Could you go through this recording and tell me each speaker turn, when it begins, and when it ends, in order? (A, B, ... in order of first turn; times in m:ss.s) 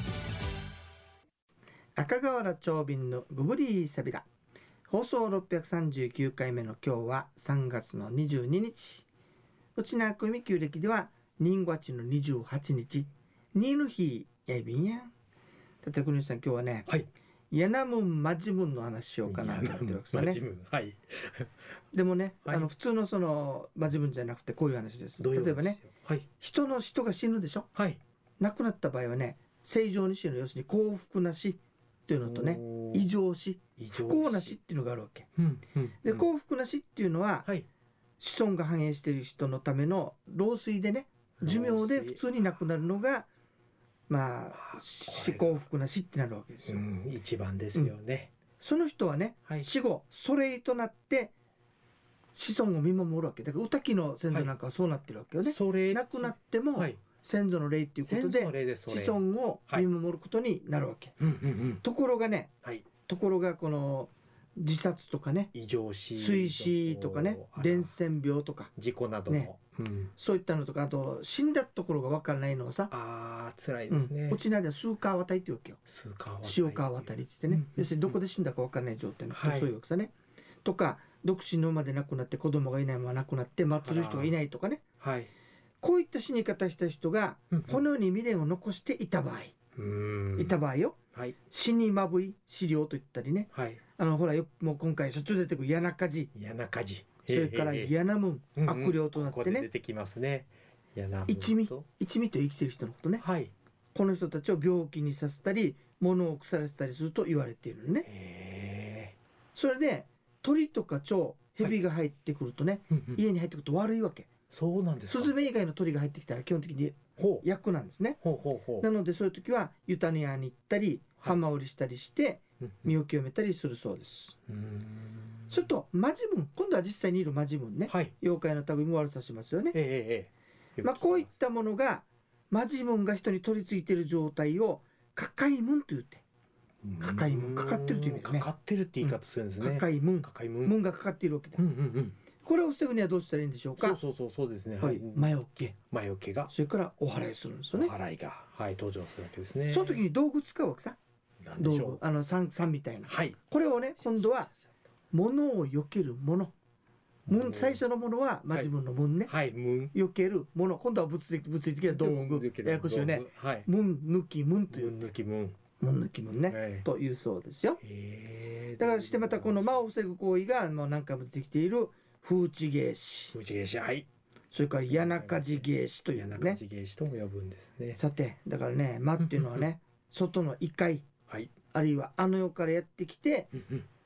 0:02.0-0:04.3 A
0:04.9-0:09.1 A
0:09.8-0:15.1 A
0:15.8-0:16.9 A
0:17.5-0:20.4 A
0:19.3-0:21.5 B
0:21.9-0:25.8 A
0:25.2-0:26.3 B
0:26.4-0:27.7 A
0:27.8-0:28.0 B
0:28.4-0:35.3 A
0:32.2-0:33.1 B
0:33.8-0:34.6 B
0:35.4-0:36.3 B
0:36.0-0:37.5 A
0:38.2-0:43.3 A
0:41.4-0:42.2 B
0:44.1-0:46.8 A
0:44.5-0:45.5 B
0:46.7-0:48.3 B
0:48.6-0:51.3 A
0:52.3-1:01.2 A
0:55.4-0:57.0 B
0:58.0-0:59.9 B
1:01.2-1:01.8 B
1:01.8-1:05.5 A
1:05.5-1:07.9 B
1:06.1-1:08.7 A
1:08.8-1:10.1 B
1:10.1-1:12.9 A
1:12.9-1:14.4 B
1:13.9-1:15.8 A
1:15.9-1:18.2 B
1:16.4-1:20.1 A
1:19.3-1:19.7 B
1:20.6-1:24.8 A
1:23.8-1:24.3 B
1:25.0-1:25.3 B
1:25.8-1:29.5 A
1:27.5-1:27.8 B
1:29.8-1:30.6 B
1:30.4-1:36.3 A
1:33.5-1:33.8 B
1:36.3-1:37.9 B
1:37.3-1:39.7 A
1:38.6-1:41.8 B
1:41.3-1:43.2 A
1:43.2-1:43.5 B
1:43.9-1:48.1 A
1:48.0-1:49.2 B
1:49.5-1:54.3 A
1:52.9-1:53.2 B
1:54.5-1:55.3 B
1:55.1-1:58.2 A
1:57.2-1:57.4 B
1:58.2-1:58.9 B
1:58.8-2:04.4 A
2:02.6-2:02.9 B
2:04.5-2:05.6 B
2:05.5-2:09.8 A
2:07.9-2:08.1 B
2:09.7-2:11.3 B
2:10.8-2:16.2 A
2:16.8-2:20.8 B
2:17.0-2:18.5 A
2:19.0-2:21.6 A
2:21.6-2:22.2 B
2:22.4-2:24.0 A
2:23.8-2:26.5 B
2:24.8-2:25.8 A
2:26.5-2:27.9 A
2:27.7-2:30.0 B
2:29.7-2:31.0 A
2:31.4-2:32.0 B
2:31.6-2:34.5 A
2:33.1-2:33.4 B
2:35.1-2:36.5 A
2:37.3-2:37.8 B
2:37.3-2:39.3 A
2:39.3-2:39.9 B
2:39.9-2:45.0 A
2:41.9-2:43.7 B
2:44.7-2:45.6 B
2:45.8-2:47.8 A
2:46.5-2:46.9 B
2:47.8-2:49.8 B
2:48.8-2:53.4 A
2:53.3-2:54.1 B
2:54.5-2:56.6 A
2:54.9-2:58.0 B
2:58.0-3:01.1 A
2:59.2-2:59.6 B
3:01.7-3:03.5 A